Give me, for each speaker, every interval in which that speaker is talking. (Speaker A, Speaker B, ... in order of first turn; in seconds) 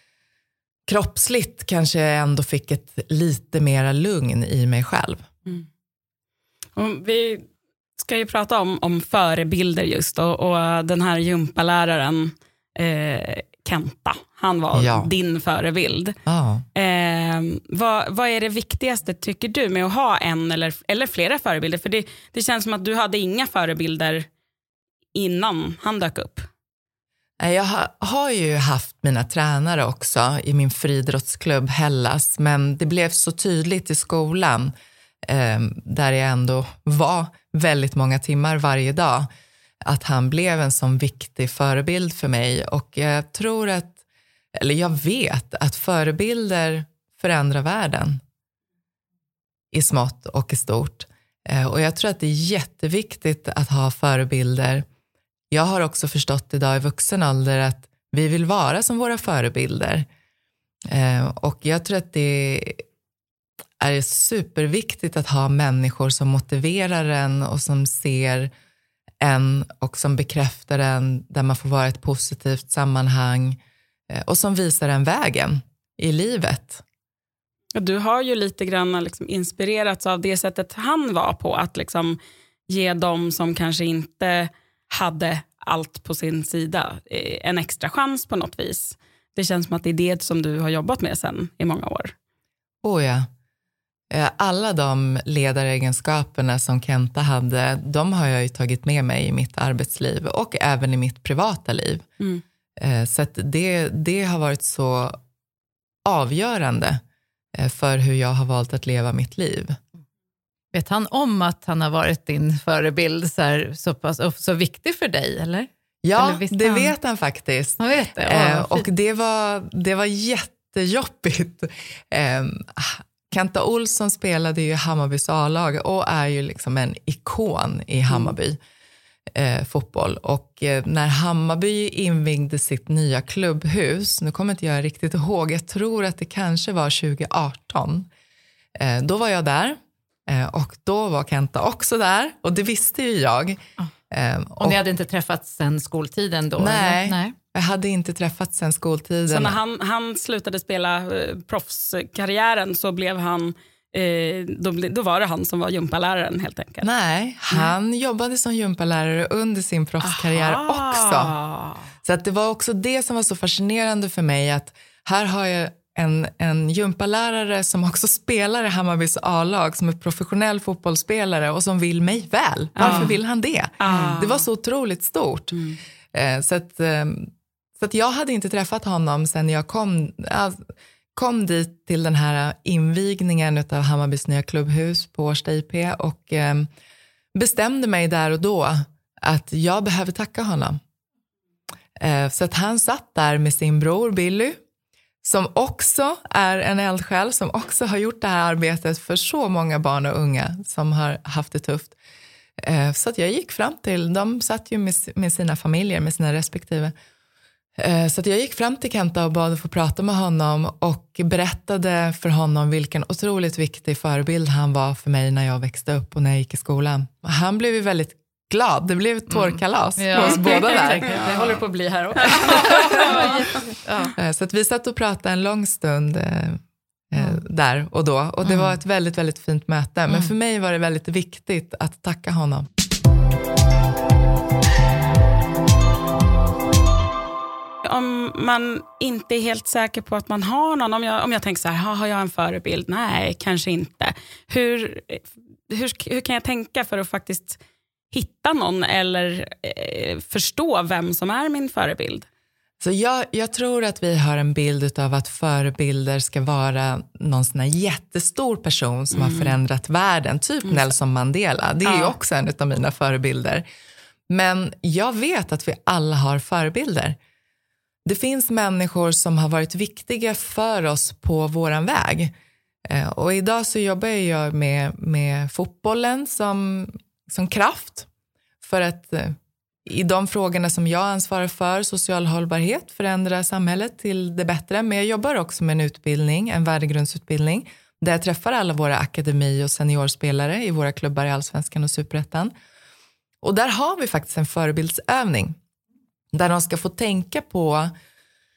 Speaker A: 0.9-5.2, 14.7-15.1, 16.2-16.6, 27.4-34.7, 35.2-39.3, 39.8-44.0, 44.5-48.2, 49.7-54.8, 55.5-60.1, 60.9-62.8, 63.8-68.5, 69.2-73.6, 74.1-76.8, 92.8-93.3, 94.1-102.1, 102.8-105.2, 106.0-107.0, 107.5-109.8, 116.0-128.6, 129.3-138.1, 138.8-144.8, 146.6-149.6, 156.8-161.3, 162.0-175.6, 176.1-180.6, 181.1-186.7, 187.3-190.8, 192.0-194.6, 195.2-201.9, 202.6-206.9, 207.8-221.3, 222.4-223.2, 224.2-232.7, 252.8-263.6, 264.3-267.2, 268.0-272.3, 272.9-278.1, 278.6-292.5, 293.4-295.6, 296.3-297.9
Speaker B: 6.7-7.5, 8.0-16.1, 16.7-24.3, 25.1-26.5, 77.7-92.1, 149.3-156.9, 160.0-161.8, 172.8-173.2, 173.8-174.4, 175.5-175.8, 220.2-221.5, 222.2-223.6, 237.8-247.6, 248.1-252.2, 259.1-259.6, 261.8-262.1
Speaker C: 110.7-116.9, 117.8-118.8, 144.6-147.3, 172.8-173.1, 173.8-174.2, 219.3-224.1, 228.5-228.7